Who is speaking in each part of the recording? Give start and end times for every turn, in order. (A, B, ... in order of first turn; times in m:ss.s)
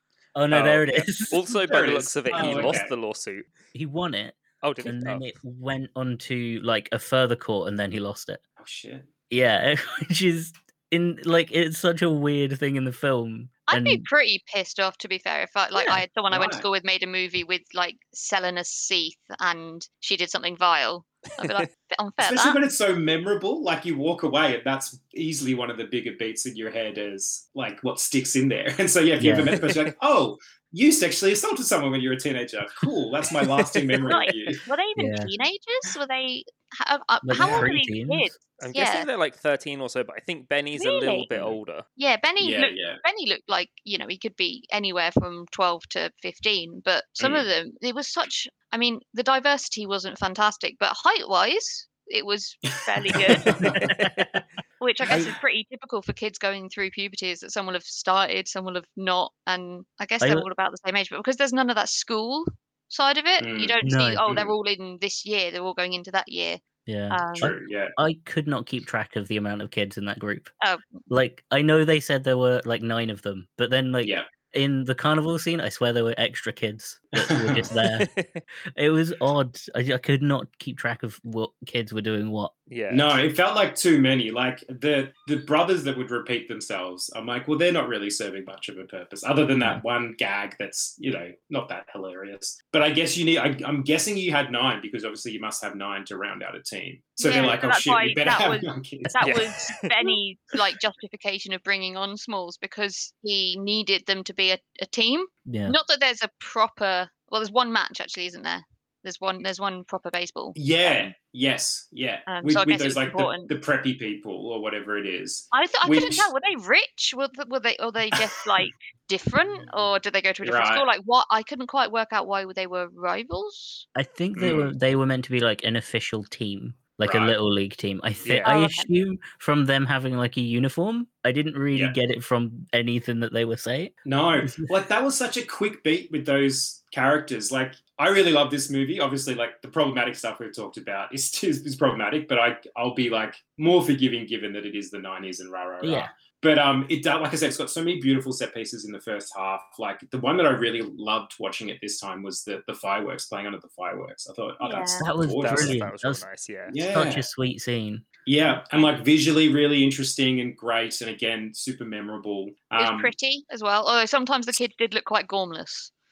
0:00.3-0:01.4 A
0:00.5-0:02.9 B
0:01.3-0:03.5 C
0:02.3-0:02.8 A
0:03.7-0:08.4 A
0:04.6-0:05.2 C
0:08.6-0:09.1 B
0:09.3-0:14.0 A
0:13.7-0:22.6 D
0:15.7-0:16.0 A
0:16.3-0:16.6 B
0:22.2-0:34.6 B
0:29.2-0:29.6 A
0:29.5-0:29.9 C
0:33.7-0:34.1 C
0:34.1-0:39.1 D
0:35.0-0:35.3 A
0:37.2-0:38.3 A
0:37.3-0:37.7 B
0:38.6-0:41.8 C
0:40.8-0:41.3 D
0:42.0-0:53.6 D
0:42.4-0:43.0 B
0:47.2-0:47.5 B
0:52.9-0:53.8 B
0:53.4-0:54.4 C
0:53.7-0:54.1 A
0:54.8-1:06.6 D
0:55.1-0:55.3 B
1:00.2-1:00.5 A
1:03.4-1:03.7 B
1:03.8-1:04.2 A
1:04.2-1:04.5 B
1:06.8-1:10.5 A
1:07.1-1:07.5 D
1:07.4-1:07.9 B
1:10.6-1:11.0 D
1:11.1-1:18.1 A
1:17.2-1:17.7 B
1:17.8-1:18.4 C
1:18.8-1:22.5 A
1:22.7-1:23.1 C
1:22.9-1:39.1 B
1:37.2-1:51.1 D
1:39.2-1:39.8 C
1:45.5-1:45.8 A
1:50.5-1:56.3 B
1:52.3-1:53.5 D
1:55.5-2:03.8 D
2:00.4-2:00.8 B
2:03.9-2:14.7 A
2:04.4-2:04.7 B
2:07.0-2:07.3 B
2:08.2-2:08.5 C
2:08.4-2:08.9 D
2:14.0-2:35.8 B
2:25.8-2:26.1 A
2:34.6-2:35.0 D
2:35.0-2:36.2 A
2:35.3-2:36.8 C
2:36.7-2:37.2 B
2:36.9-2:38.0 A
2:38.2-2:43.1 B
2:42.8-2:45.9 D